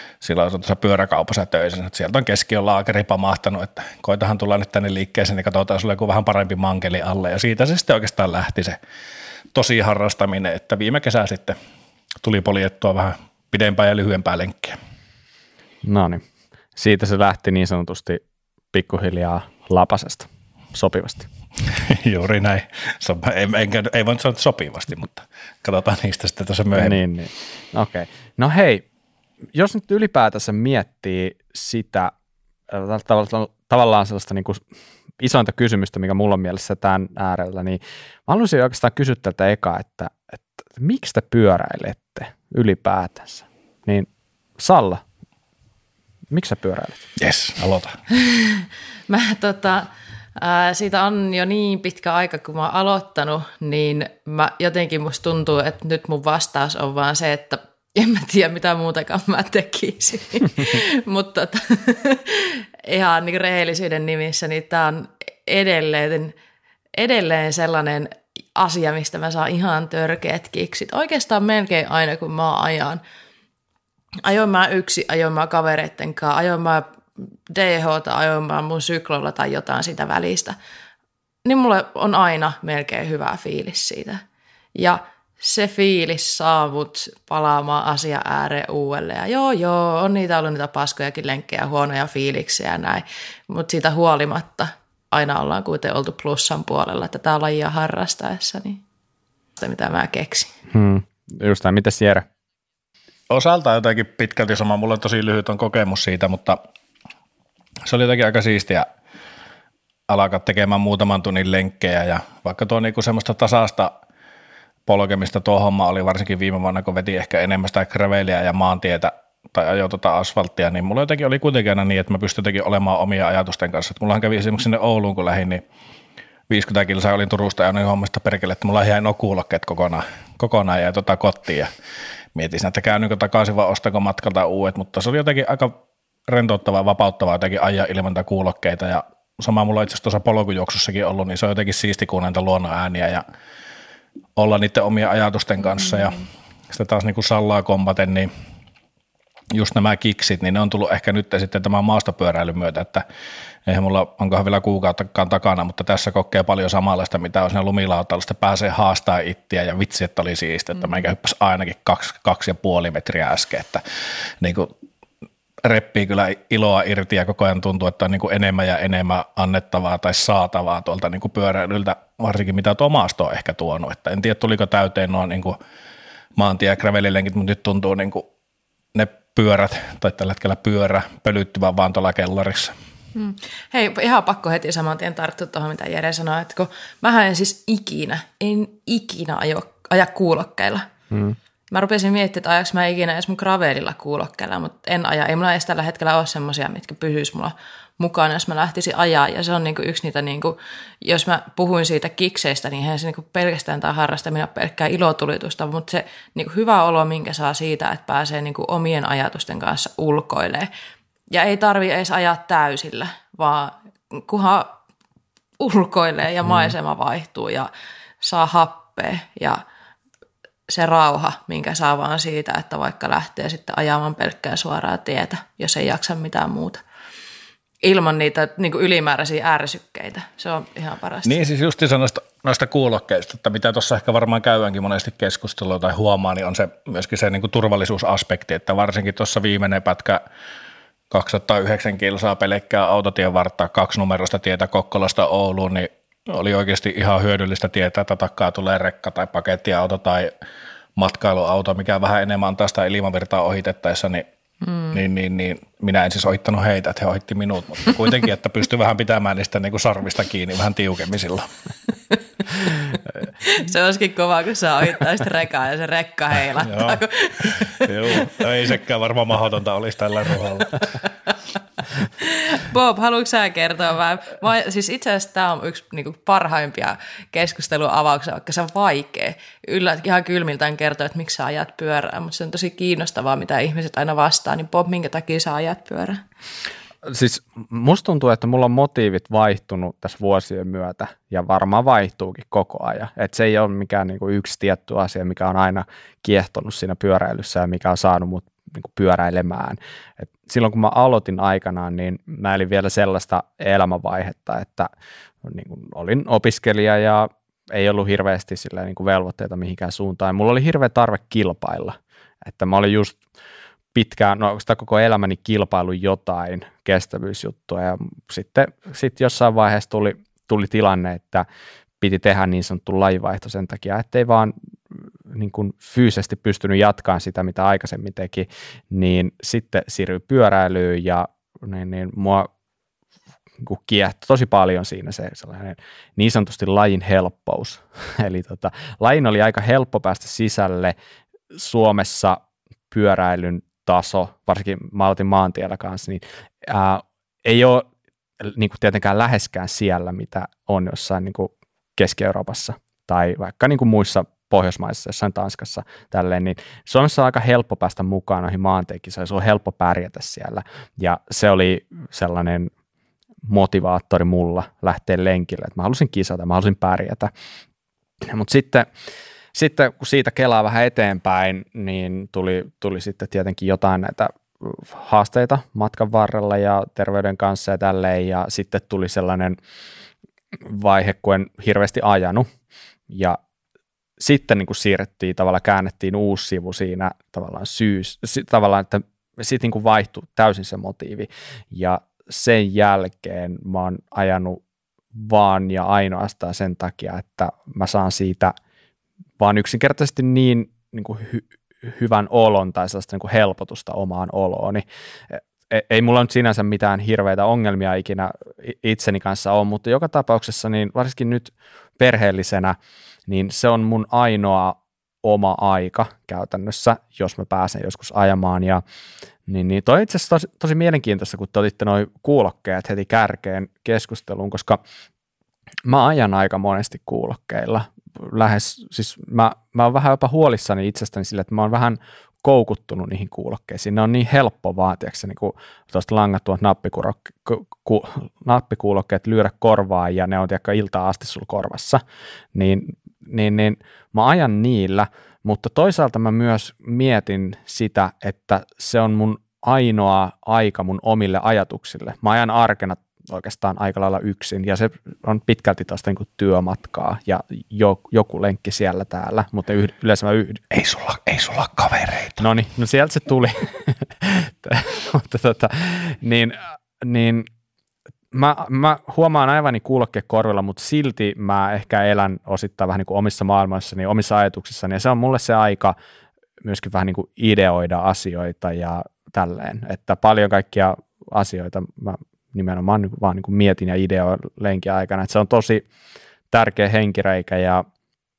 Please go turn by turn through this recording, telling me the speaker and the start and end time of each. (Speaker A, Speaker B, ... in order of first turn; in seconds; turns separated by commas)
Speaker A: 0.2-8.8, Speaker A: 9.5-11.6, Speaker A: 12.2-14.8, Speaker B: 15.8-16.2, Speaker B: 16.8-18.2, Speaker B: 18.7-21.3, Speaker A: 21.7-27.0, Speaker B: 26.7-28.8, Speaker B: 29.5-32.1, Speaker B: 32.7-34.6, Speaker B: 35.2-44.1, Speaker B: 44.6-45.0, Speaker B: 46.3-47.1, Speaker A: 47.2-48.0, Speaker C: 48.1-66.3, Speaker C: 66.9-73.0, Speaker C: 74.2-76.8, Speaker C: 77.5-80.5, Speaker C: 81.4-84.2, Speaker C: 84.7-98.8, Speaker C: 99.6-100.5, Speaker B: 100.7-102.2, Speaker A: 103.3-106.6, Speaker A: 107.8-108.8, Speaker A: 110.1-114.0, Speaker A: 114.8-125.6, Speaker A: 126.5-131.7, Speaker A: 132.3-135.8, Speaker A: 136.3-143.2, Speaker A: 144.3-148.3, Speaker A: 149.5-153.0, Speaker A: 153.7-163.8, Speaker A: 164.4-164.7, Speaker A: 165.6-175.6, Speaker A: 176.3-178.2, Speaker A: 178.9-182.7, Speaker C: 183.1-190.9, Speaker B: 191.1-191.4, Speaker C: 191.7-210.7, Speaker C: 211.3-214.8, Speaker C: 215.6-217.7, Speaker C: 218.2-219.6, Speaker C: 220.7-226.8, Speaker C: 227.8-231.4, Speaker A: 231.2-240.2, Speaker A: 241.1-250.3, Speaker A: 250.9-254.2, Speaker C: 254.7-254.9, Speaker A: 254.9-261.5, Speaker C: 263.4-268.4, Speaker A: 266.6-270.9, Speaker C: 272.2-286.2, Speaker B: 287.0-304.9, Speaker B: 305.4-313.2, Speaker B: 313.9-321.4, Speaker B: 322.0-324.5, Speaker B: 325.3-332.5, Speaker B: 333.6-340.9, Speaker B: 341.5-342.4, Speaker B: 342.9-347.9, Speaker B: 348.4-362.7, Speaker B: 363.4-367.3, Speaker B: 368.2-368.9, Speaker B: 369.5-379.6, Speaker B: 380.6-382.5, Speaker B: 383.1-383.4, Speaker B: 384.2-394.6, Speaker B: 395.1-398.5, Speaker B: 399.4-412.8, Speaker B: 413.3-418.8, Speaker B: 419.5-424.8, Speaker B: 425.9-442.0, Speaker B: 442.5-460.6, Speaker A: 460.7-462.4, Speaker B: 462.4-467.5, Speaker B: 468.3-475.9, Speaker B: 476.6-485.9, Speaker B: 486.5-487.8